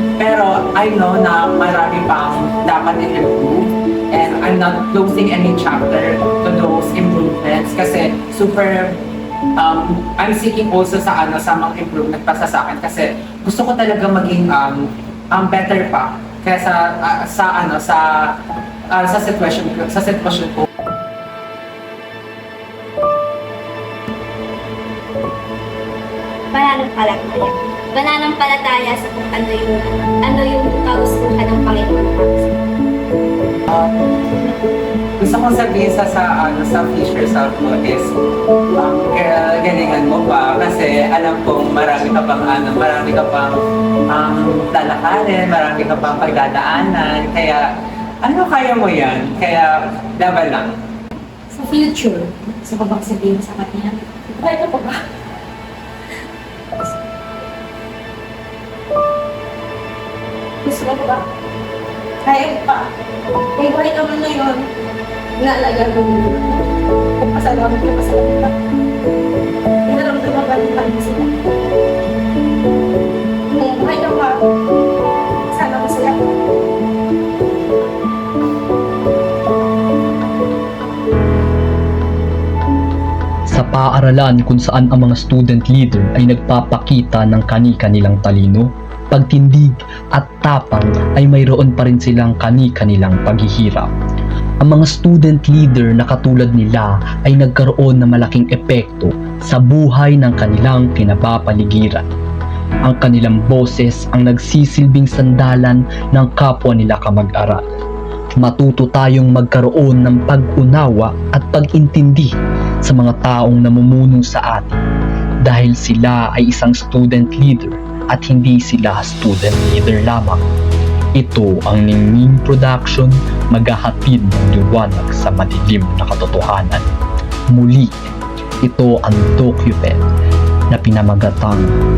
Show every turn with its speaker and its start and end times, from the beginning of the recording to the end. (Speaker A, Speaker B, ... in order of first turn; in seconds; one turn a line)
Speaker A: 0.2-9.0
Speaker A: 9.6-18.3
Speaker A: 18.9-20.6
Speaker B: 26.5-32.6
Speaker A: 33.7-33.9
Speaker A: 35.2-38.1
Speaker A: 38.8-47.6
Speaker A: 48.2-50.7
Speaker C: 51.5-53.9
Speaker D: 54.3-55.0
Speaker D: 60.6-61.2
Speaker D: 62.2-62.9
Speaker D: 63.6-64.7
Speaker D: 65.4-66.6
Speaker D: 67.2-68.5
Speaker D: 69.9-71.3
Speaker D: 73.5-74.4
Speaker D: 75.5-76.3
Speaker E: 83.5-93.9
Speaker E: 94.6-102.1
Speaker E: 102.8-107.7
Speaker E: 108.3-114.8
Speaker E: 115.4-120.4
Speaker E: 121.1-126.9
Speaker E: 127.5-128.0
Speaker E: 128.6-130.0
Speaker E: 130.7-131.8